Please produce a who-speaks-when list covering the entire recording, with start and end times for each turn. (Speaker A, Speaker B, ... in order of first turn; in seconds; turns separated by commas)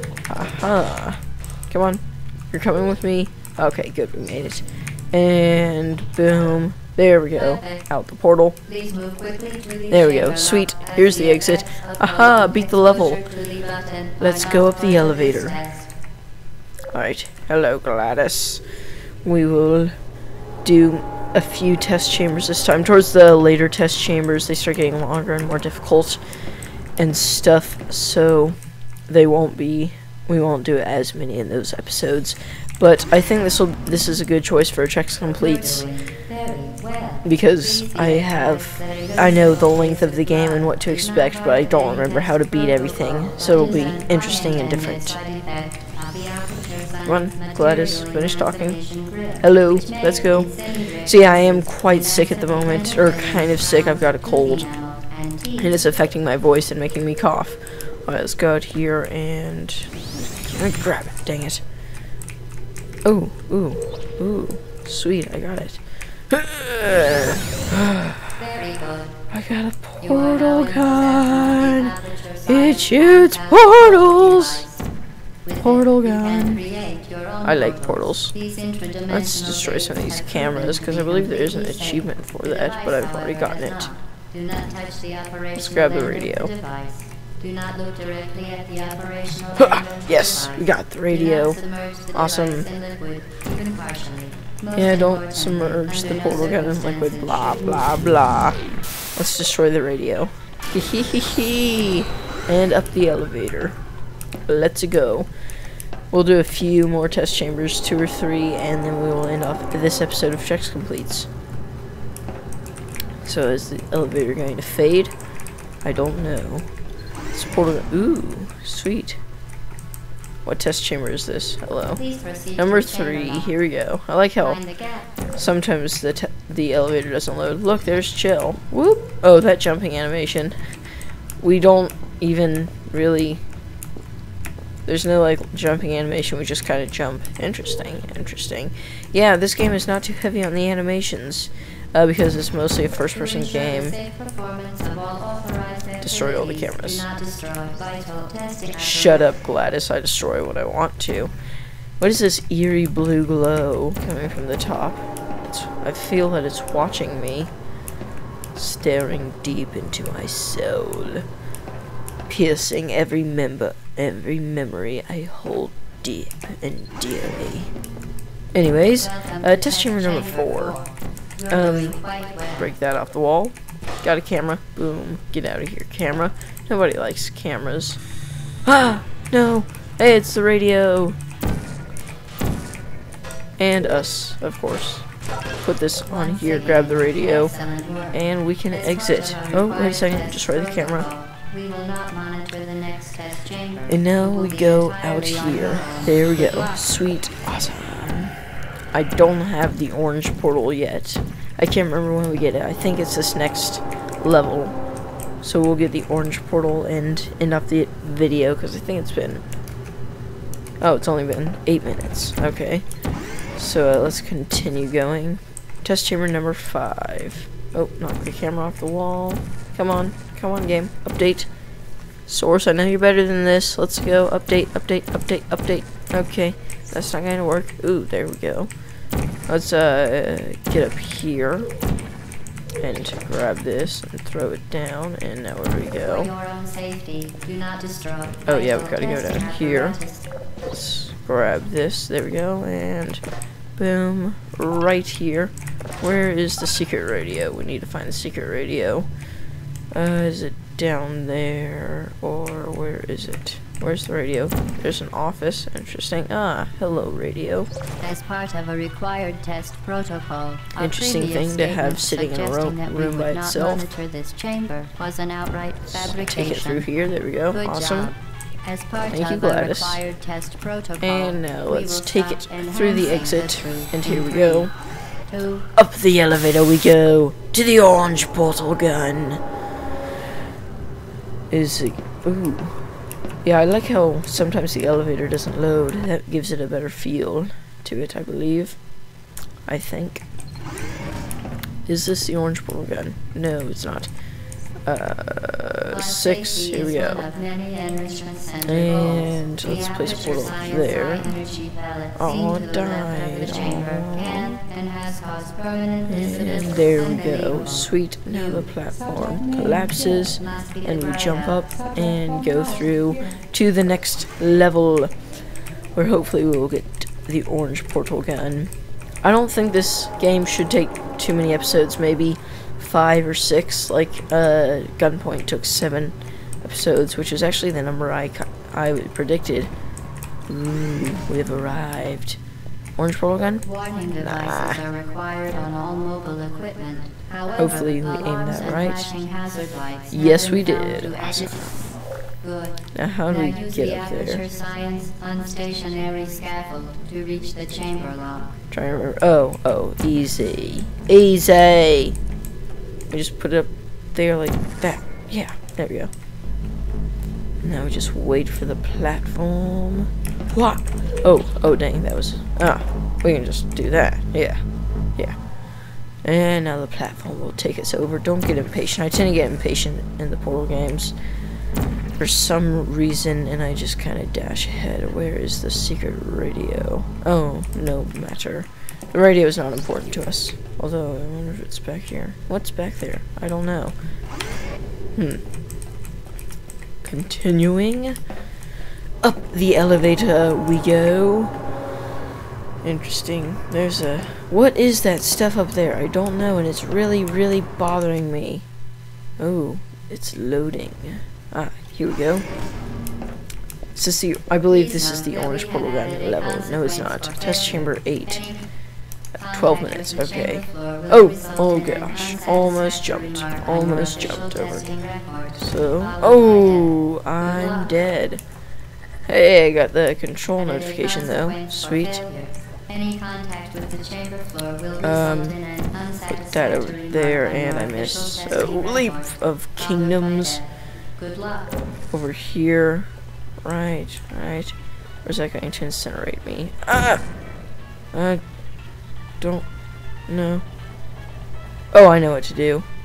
Speaker A: 0.3-8.6, Speaker B: 7.4-7.8, Speaker B: 8.7-15.9, Speaker A: 9.9-13.2, Speaker A: 14.2-15.6, Speaker A: 16.9-18.6, Speaker A: 19.2-19.9, Speaker A: 20.6-26.2, Speaker A: 27.0-28.6, Speaker A: 29.1-35.9, Speaker B: 35.4-55.7, Speaker A: 37.2-45.2, Speaker A: 47.0-48.8, Speaker A: 49.4-54.7, Speaker A: 55.6-61.6, Speaker A: 63.0-65.8, Speaker A: 66.3-68.4, Speaker B: 68.4-69.1, Speaker A: 69.3-71.9, Speaker B: 70.0-74.8, Speaker A: 72.5-74.6, Speaker B: 75.5-97.9, Speaker A: 75.6-76.6, Speaker A: 77.4-78.3, Speaker A: 79.1-83.9, Speaker A: 85.5-86.5, Speaker A: 89.6-91.6, Speaker A: 92.1-92.7, Speaker A: 94.8-98.6, Speaker A: 99.2-103.8, Speaker A: 104.5-105.3, Speaker A: 106.1-111.3, Speaker A: 113.2-115.1, Speaker A: 115.8-116.7, Speaker A: 117.3-119.2, Speaker A: 120.4-122.0, Speaker B: 121.9-123.5, Speaker A: 122.5-124.6, Speaker B: 124.4-125.1, Speaker A: 125.3-130.5, Speaker A: 131.4-133.4, Speaker A: 134.8-143.9, Speaker B: 143.1-149.3, Speaker A: 146.0-147.0, Speaker A: 148.7-151.3, Speaker A: 152.0-157.5, Speaker A: 158.5-161.2, Speaker A: 162.3-167.7, Speaker A: 168.5-170.8, Speaker B: 169.0-172.7, Speaker A: 171.5-172.0, Speaker A: 172.5-178.0, Speaker A: 178.7-181.2, Speaker A: 183.6-185.1, Speaker A: 185.6-187.5, Speaker B: 186.1-188.1, Speaker A: 188.1-191.1, Speaker B: 188.7-196.8, Speaker A: 193.9-198.3, Speaker A: 198.9-204.8, Speaker A: 205.4-209.4, Speaker A: 210.8-212.8, Speaker A: 213.6-221.5, Speaker A: 222.3-228.7, Speaker A: 229.5-231.7, Speaker A: 232.8-236.3, Speaker B: 236.0-240.2, Speaker A: 238.4-240.0, Speaker A: 240.7-243.2, Speaker A: 243.8-249.1, Speaker A: 249.9-257.7, Speaker B: 258.0-266.9, Speaker A: 260.8-263.9, Speaker A: 265.9-268.1, Speaker B: 267.5-274.7, Speaker A: 269.1-270.0, Speaker A: 271.0-274.7, Speaker B: 275.3-275.7, Speaker A: 275.7-279.4, Speaker A: 281.5-282.8, Speaker A: 283.4-288.8, Speaker A: 289.7-290.2, Speaker A: 291.9-294.1, Speaker A: 294.9-297.2, Speaker B: 295.9-308.7, Speaker A: 298.6-301.4, Speaker A: 302.1-304.6, Speaker A: 306.1-315.1, Speaker B: 309.3-311.8, Speaker A: 315.9-318.7, Speaker A: 319.2-329.7, Speaker A: 330.5-332.4, Speaker A: 333.0-333.6, Speaker B: 333.6-341.7, Speaker A: 334.2-334.8, Speaker A: 337.6-339.1, Speaker A: 340.1-341.8, Speaker B: 342.4-348.5, Speaker A: 342.9-344.4, Speaker A: 348.7-352.2, Speaker A: 353.1-356.1, Speaker A: 357.6-364.6, Speaker A: 366.2-371.1, Speaker A: 372.2-383.9, Speaker A: 385.1-385.4, Speaker A: 387.0-388.2, Speaker A: 389.2-391.5, Speaker A: 392.8-398.6, Speaker A: 399.4-402.4, Speaker A: 403.9-408.5, Speaker B: 404.7-408.6, Speaker B: 409.4-417.9, Speaker A: 409.5-414.9, Speaker A: 415.5-418.4, Speaker A: 419.3-422.2, Speaker B: 420.6-430.6, Speaker A: 425.0-425.6, Speaker A: 426.3-430.6, Speaker B: 431.2-431.7, Speaker A: 432.1-433.1, Speaker A: 433.6-437.2, Speaker A: 438.1-438.4, Speaker A: 439.4-439.6, Speaker A: 440.3-440.6, Speaker A: 441.9-442.9